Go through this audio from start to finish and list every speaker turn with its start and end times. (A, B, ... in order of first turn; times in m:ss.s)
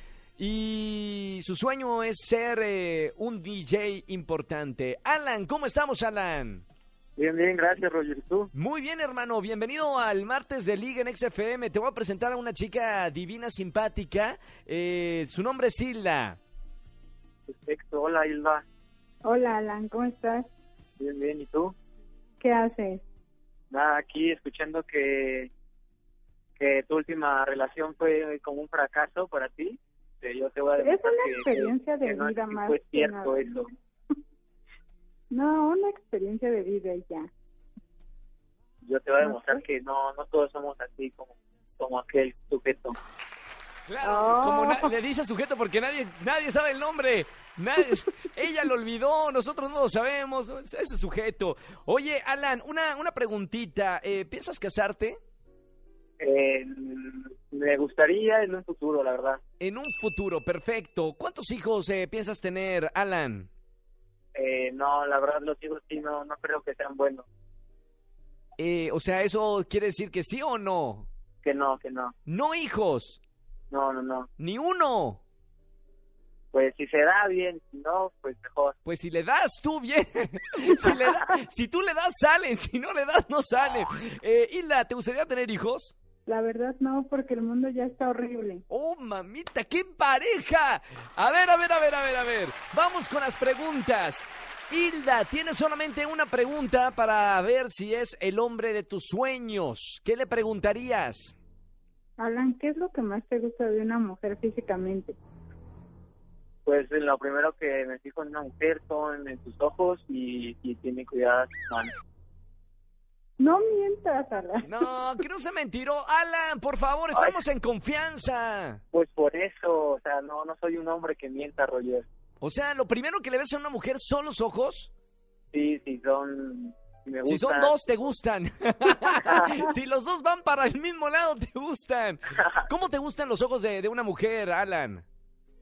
0:00.4-0:06.6 A
0:07.2-0:08.5 B
0:08.5-0:16.4 A
0:17.5-0:18.6 B
0:19.2-0:20.5 C
0:21.0-0:21.7 B
0:22.4-0:23.0 C
0:23.7-0:25.5 B
0:26.6-0:33.7 B
0:30.8-0:33.6 C
0:35.3-0:37.3 C
0:38.8-0:43.0 B
0:43.9-0:55.2 A
0:44.0-0:44.9 C
0:56.2-0:59.4 B
0:59.6-1:03.5 A
1:04.3-1:07.2 B
1:08.6-1:11.1 A
1:11.4-1:12.1 B
1:12.2-1:13.2 A
1:13.7-1:14.3 B
1:14.4-1:15.2 A
1:16.5-1:18.7 B
1:18.8-1:25.9 A
1:26.2-1:28.6 C
1:28.7-1:41.3 A
1:42.2-1:45.2 C
1:46.6-1:51.9 B
1:53.4-1:54.7 C
1:54.6-1:58.8 A
1:58.9-2:02.0 B
2:02.4-2:04.9 A
2:05.5-2:07.7 B
2:07.2-2:15.0 A
2:08.9-2:09.7 B